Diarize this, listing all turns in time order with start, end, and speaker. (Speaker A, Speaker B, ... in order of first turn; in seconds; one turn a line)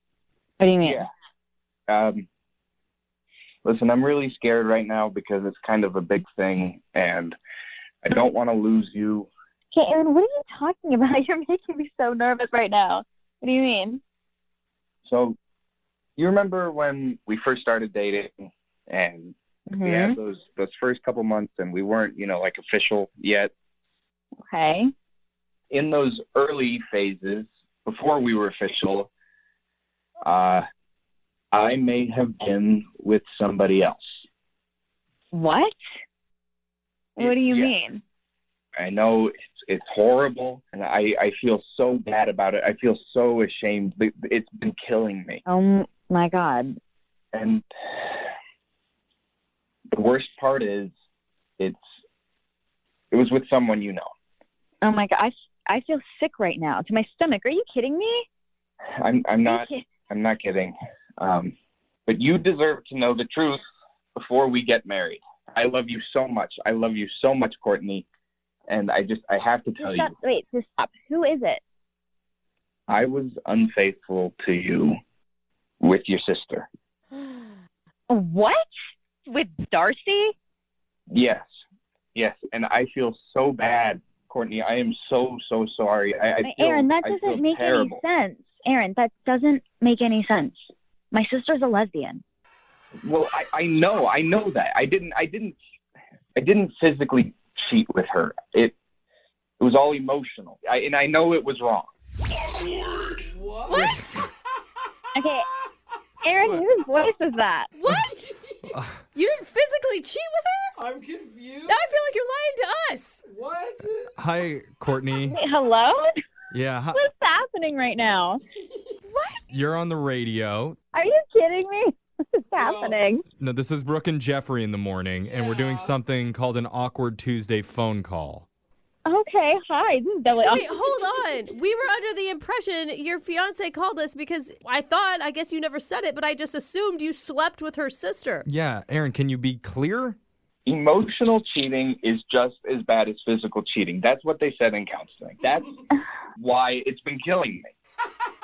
Speaker A: 0.6-1.1
Speaker B: 1.9-2.3
Speaker B: 3.6-7.4
Speaker B: 8.0-9.3
Speaker A: 9.7-14.0
Speaker B: 15.1-15.4
Speaker B: 16.2-23.5
Speaker A: 19.7-20.2
Speaker A: 24.5-24.9
Speaker B: 25.7-29.1
Speaker B: 30.2-30.6
Speaker B: 31.5-34.2
Speaker A: 35.3-35.8
Speaker A: 37.1-38.0
Speaker B: 37.2-37.7
Speaker B: 38.8-45.4
Speaker A: 45.5-46.8
Speaker B: 47.3-48.2
Speaker B: 49.9-50.9
Speaker B: 53.1-54.1
Speaker A: 54.8-58.2
Speaker B: 59.0-61.5
Speaker A: 59.4-60.0
Speaker B: 62.1-63.6
Speaker B: 64.2-68.1
Speaker B: 68.7-70.1
Speaker A: 69.8-71.6
Speaker B: 72.9-75.0
Speaker B: 75.8-76.7
Speaker A: 78.1-78.6
Speaker A: 79.3-80.3
Speaker B: 81.1-81.5
Speaker B: 82.1-88.0
Speaker A: 86.4-92.2
Speaker B: 93.0-95.6
Speaker B: 96.4-98.8
Speaker B: 99.6-101.9
Speaker C: 103.2-103.9
Speaker D: 103.7-104.2
Speaker E: 103.7-104.1
Speaker A: 105.1-105.5
Speaker A: 106.2-107.7
Speaker D: 107.8-108.3
Speaker E: 108.7-109.0
Speaker D: 109.1-110.8
Speaker C: 110.8-111.8
Speaker D: 111.7-113.2
Speaker C: 113.2-114.1
Speaker E: 114.2-115.4
Speaker A: 115.3-116.1
Speaker E: 116.5-117.0
Speaker A: 116.9-118.4
Speaker D: 119.1-119.4
Speaker E: 119.5-120.8
Speaker A: 120.9-123.2
Speaker C: 122.6-123.0
Speaker E: 123.4-128.5
Speaker C: 125.2-125.9
Speaker A: 129.1-131.1
Speaker D: 130.4-138.5
Speaker E: 138.5-140.2
Speaker B: 140.7-147.7